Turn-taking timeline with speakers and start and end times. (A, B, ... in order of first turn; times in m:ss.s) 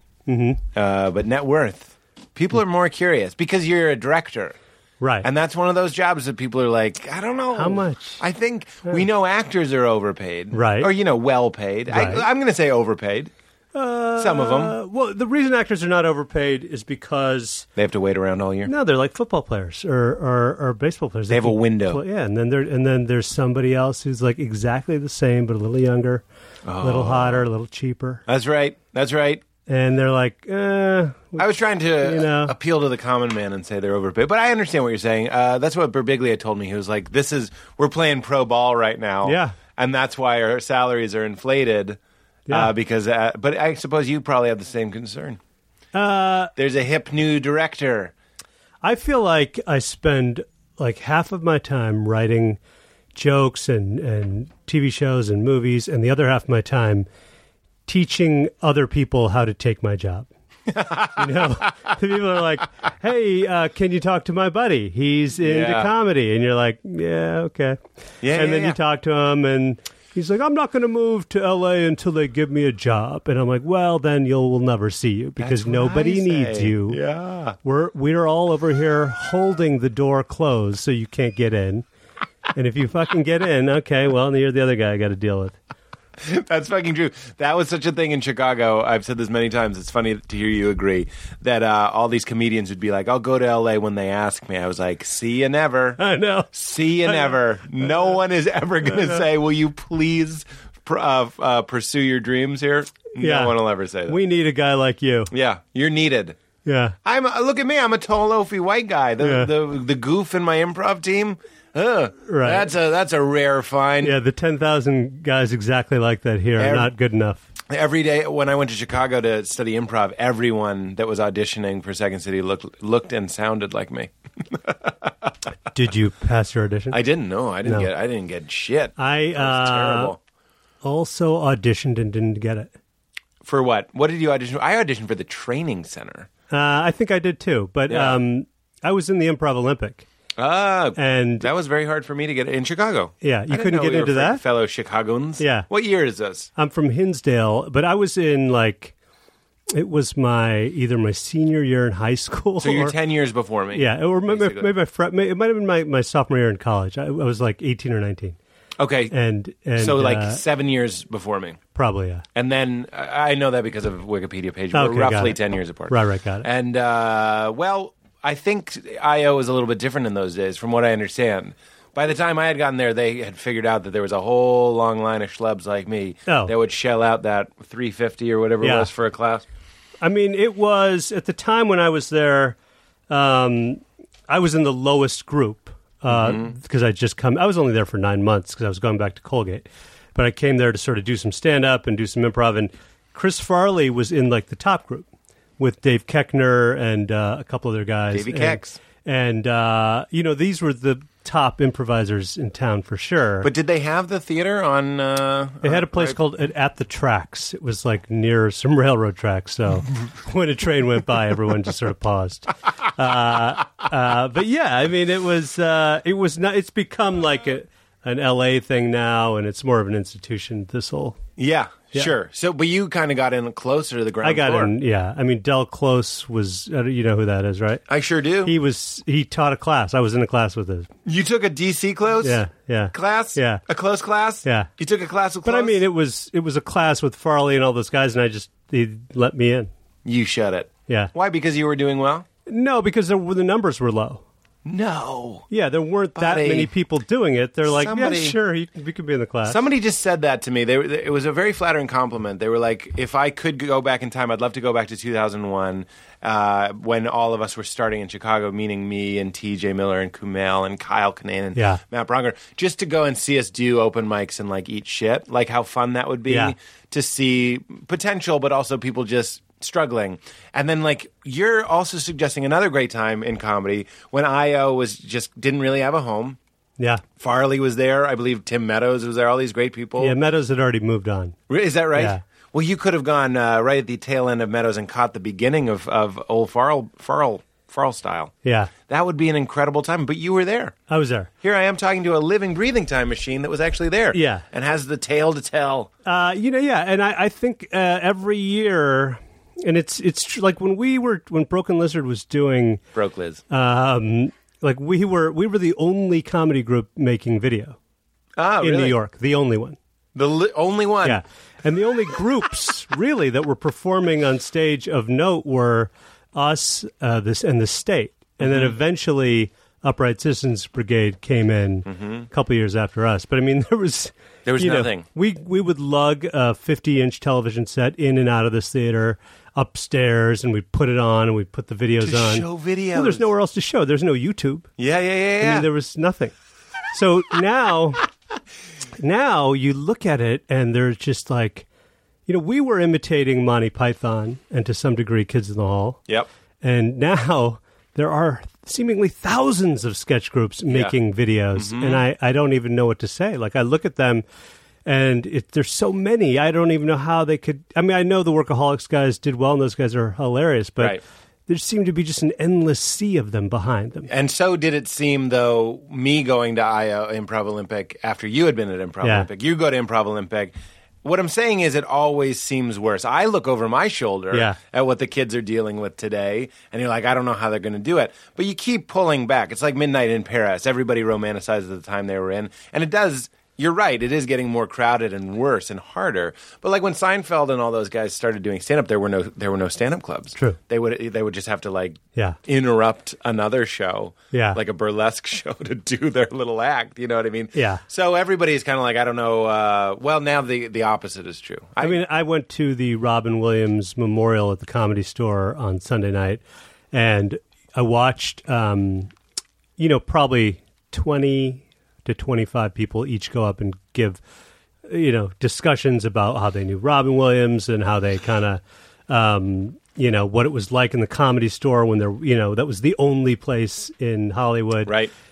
0:00.3-0:00.6 A
0:00.8-0:04.6 B
0:05.0-0:05.3 A
0:05.2-0:13.3 B
0:07.5-0:08.2 A
0:10.5-0:10.9 A
0:11.9-0:12.2 A
0:13.7-0:17.7 A
0:14.2-0:14.8 B
0:17.8-0:18.7 B
0:18.7-0:26.2 A
0:21.3-0:22.0 B
0:26.7-0:27.5 B
0:26.8-0:28.2 A
0:28.3-0:29.4 B
0:29.7-0:31.5 A
0:31.4-0:45.4 B
0:32.0-0:32.5 A
0:39.2-0:39.6 A
0:45.9-0:46.5 A
0:46.6-0:48.1 B
0:48.8-0:52.6 A
0:53.2-0:57.1 A
0:57.9-1:00.3 A
1:00.7-1:01.7 B
1:01.1-1:07.8 A
1:05.4-1:05.9 B
1:08.2-1:08.8 B
1:08.3-1:17.0 A
1:15.4-1:17.6 B
1:17.6-1:21.8 A
1:22.5-1:25.6 A
1:26.2-1:36.0 B
1:36.0-1:37.8 A
1:36.5-1:44.2 B
1:43.2-1:43.6 A
1:44.1-1:45.3 A
1:45.3-1:46.4 B
1:46.7-1:47.0 A
1:47.0-1:54.2 B
1:49.2-1:49.5 A
1:52.3-1:52.7 A
1:54.0-1:57.4 A
1:56.6-1:56.9 B
1:57.7-2:05.3 B
2:05.7-2:07.0 A
2:06.9-2:10.2 B
2:09.0-2:10.2 A
2:10.8-2:12.7 A
2:13.4-2:16.3 B
2:16.5-2:20.1 A
2:17.9-2:18.2 B
2:20.4-2:26.5 B
2:21.0-2:21.5 A
2:23.2-2:24.4 A
2:25.4-2:25.7 A
2:26.6-2:28.9 A
2:29.7-2:33.0 A
2:32.6-2:34.7 B
2:33.7-2:38.4 A
2:38.8-2:39.1 B
2:39.1-2:40.4 A
2:39.8-2:41.6 B
2:41.8-2:42.2 A
2:42.4-2:59.4 B
2:44.7-2:46.5 A
2:56.3-2:56.5 A
2:58.6-2:58.9 A
3:00.0-3:02.6 A
3:03.1-3:15.1 A
3:06.1-3:06.5 B
3:15.6-3:23.5 A
3:18.1-3:18.8 B
3:23.4-3:26.2 B
3:25.6-3:41.2 A
3:41.4-3:44.7 B
3:44.2-3:47.8 A
3:47.9-3:48.5 B
3:48.4-3:50.9 A
3:51.0-3:55.8 B
3:52.2-3:53.6 A
3:54.4-3:54.7 A
3:55.4-3:59.7 A
4:00.0-4:02.3 B
4:02.5-4:04.2 A
4:04.6-4:05.5 B
4:05.5-4:09.6 A
4:06.2-4:06.7 B
4:07.7-4:08.4 B
4:09.4-4:36.4 B
4:21.6-4:21.8 A
4:26.3-4:26.5 A
4:36.8-4:37.0 A
4:37.2-4:40.2 B
4:40.0-4:41.4 A
4:41.5-4:48.3 B
4:41.9-4:42.2 A
4:48.4-4:48.7 A
4:48.9-4:50.8 B
4:50.9-4:51.3 A
4:51.4-4:55.9 B
4:54.1-4:54.4 A
4:56.0-5:02.8 A
5:02.9-5:03.4 B
5:03.5-5:07.8 A
5:08.4-5:09.0 B
5:08.6-5:09.8 A
5:10.2-5:11.2 B
5:11.0-5:34.7 A
5:18.4-5:18.7 B
5:21.9-5:22.3 B
5:24.4-5:25.0 B
5:32.0-5:33.3 B
5:34.8-5:35.7 B
5:35.4-5:36.4 A
5:36.9-5:38.1 A
5:39.0-5:41.7 A
5:42.3-5:46.0 A
5:46.6-5:54.2 A
5:50.7-5:51.0 B
5:51.6-5:52.0 B
5:54.9-6:04.1 A
6:04.1-6:42.0 B
6:09.0-6:09.3 A
6:14.3-6:14.6 A
6:34.3-6:34.6 A
6:37.6-6:37.8 A
6:41.8-6:49.1 A
6:49.8-6:54.2 A
6:54.9-7:05.0 A
7:04.9-7:05.1 B